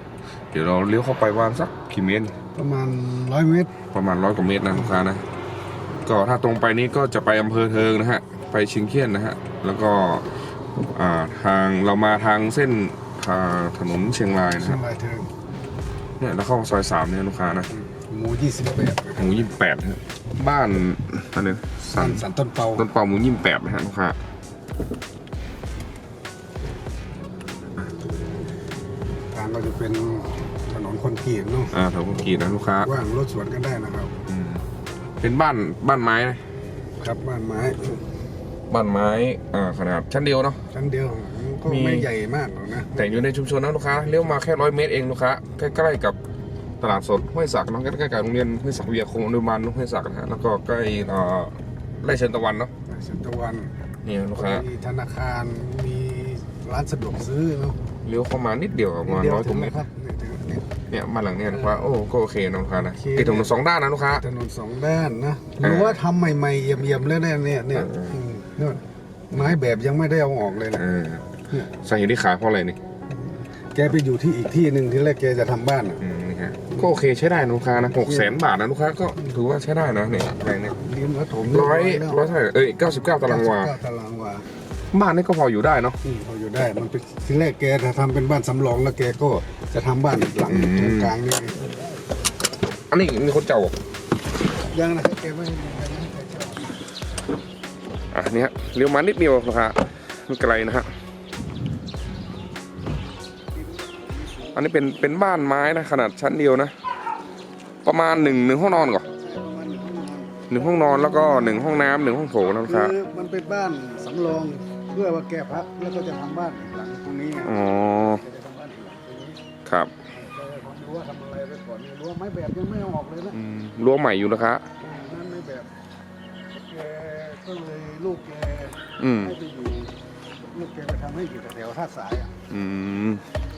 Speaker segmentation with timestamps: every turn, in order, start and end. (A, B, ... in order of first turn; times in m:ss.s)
0:00.5-0:02.3 A
0:02.6-0:03.8 B
0:03.9-0:05.2 A
0:06.0-0:10.3 A
0:10.8-0:14.8 A
0:14.6-0:15.3 B
0:16.2-0:17.7 A
0:17.7-0:19.4 B
0:19.2-0:22.2 A
0:21.9-0:22.9 B
0:22.8-0:24.2 A
0:29.3-0:31.8 B
0:31.7-0:32.9 A
0:32.8-0:34.2 B
0:34.3-0:34.6 A
0:35.2-0:36.4 A
0:37.0-0:38.0 B
0:38.7-0:40.6 A
0:40.7-0:43.2 B
0:41.7-0:42.1 A
0:42.9-0:46.2 A
0:46.8-0:52.7 A
0:52.9-0:53.7 B
0:54.0-0:54.7 A
0:54.4-0:57.8 B
0:58.0-0:59.8 A
0:59.0-1:00.7 B
1:00.9-1:04.2 A
1:01.5-1:01.9 B
1:03.0-1:03.5 B
1:04.1-1:10.8 B
1:05.6-1:06.0 A
1:07.7-1:08.2 A
1:10.7-1:12.8 A
1:13.1-1:16.0 B
1:16.0-1:20.8 A
1:17.8-1:18.4 B
1:20.7-1:22.3 B
1:21.5-1:23.8 A
1:23.2-1:24.5 B
1:24.9-1:26.0 A
1:26.0-1:31.7 B
1:30.5-1:31.2 A
1:32.9-1:33.8 A
1:34.7-1:36.7 B
1:38.1-1:40.9 A
1:43.5-1:44.7 B
1:44.6-1:46.7 A
1:47.8-1:49.1 A
1:48.1-1:51.9 B
1:50.5-1:53.0 A
1:52.6-1:59.4 B
1:57.4-1:58.2 A
1:59.7-1:59.9 A
2:00.1-2:03.4 B
2:03.3-2:04.6 A
2:04.8-2:05.7 B
2:06.5-2:12.3 B
2:09.0-2:09.4 A
2:12.5-2:13.2 A